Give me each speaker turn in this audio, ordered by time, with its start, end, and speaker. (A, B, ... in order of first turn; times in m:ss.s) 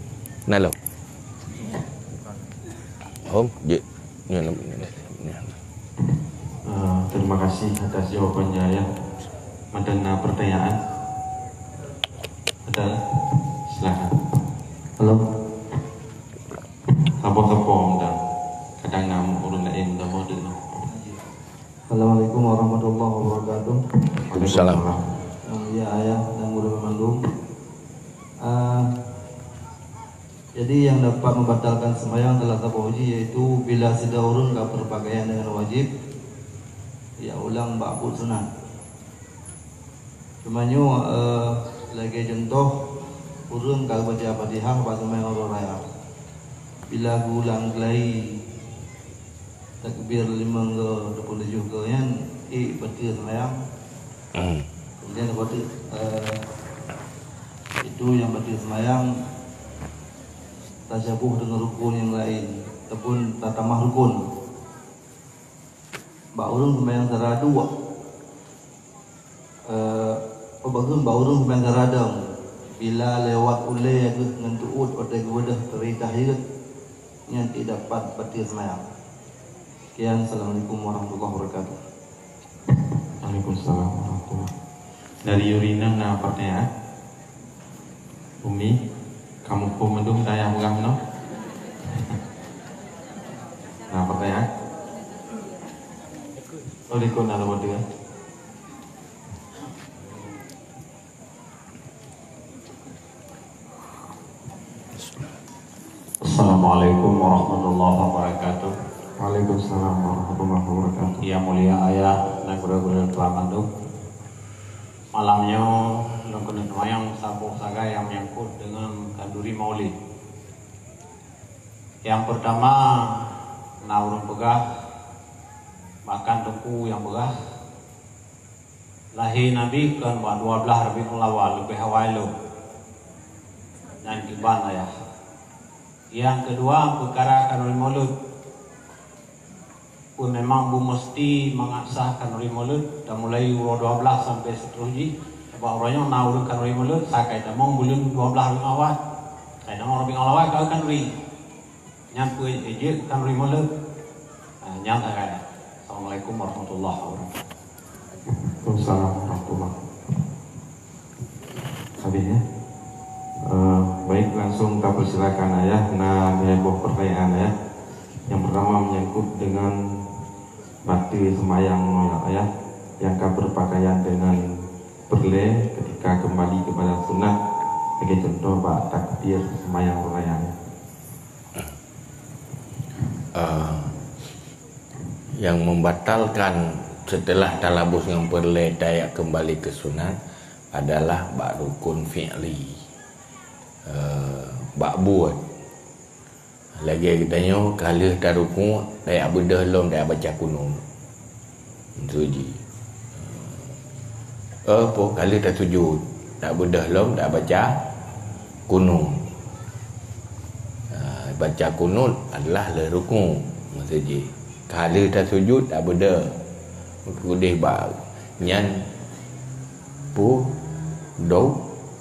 0:00.5-0:00.7 A
0:03.2-0:05.5 A
0:06.6-0:08.9 B
0:09.7-0:10.8 B
0:12.6-0:12.9 B
0:13.7-0:14.1 B
0:17.2-0:18.2 B
0:18.8-0:20.6 B
0:21.9-0:23.8 C
0:24.2-0:25.0 B
0:24.3-0:24.8 A
0:25.4-0:27.2 C
0:28.4-0:28.8 C
0:30.5-0:35.9 C
0:37.2-0:38.5 C
0:40.4-0:42.7 C
0:43.5-0:45.8 C
0:46.9-0:48.4 C
0:49.8-0:53.5 C
0:54.4-0:54.6 A
0:55.0-0:56.4 C
0:57.8-0:59.1 C
1:00.9-1:04.2 C
1:06.4-1:07.7 C
1:09.6-1:12.2 C
1:12.8-1:16.4 C
1:17.3-1:18.8 C
1:20.0-1:21.8 C
1:23.2-1:24.5 B
1:25.2-1:26.7 B
1:28.4-1:28.8 B
1:29.4-1:31.0 B
1:33.9-1:34.4 B
1:36.9-1:37.8 B
1:46.2-1:48.8 D
1:49.2-1:51.2 B
1:51.2-1:53.6 D
1:55.1-1:59.9 D
2:02.0-2:03.3 D
2:03.8-2:04.6 D
2:06.0-2:07.3 D
2:09.1-2:12.3 D
2:14.0-2:14.9 D
2:16.1-2:18.1 D
2:20.2-2:29.0 D
2:29.6-2:31.1 D
2:32.1-2:33.7 D
2:34.6-2:37.4 D
2:38.3-2:39.8 B
2:42.0-2:42.4 B
2:43.4-2:47.5 B
2:48.3-2:50.1 B
2:50.8-2:52.5 B
2:53.0-2:54.4 B
2:55.1-2:57.4 B
2:58.0-3:00.5 B
3:03.3-3:04.0 A
3:05.4-3:10.2 A
3:10.7-3:12.8 A
3:13.9-3:15.4 A
3:16.8-3:20.8 A
3:22.0-3:22.6 A
3:24.6-3:27.8 A
3:28.7-3:29.2 A
3:30.9-3:36.4 A
3:37.0-3:38.8 A
3:40.1-3:40.5 A
3:41.2-3:41.6 A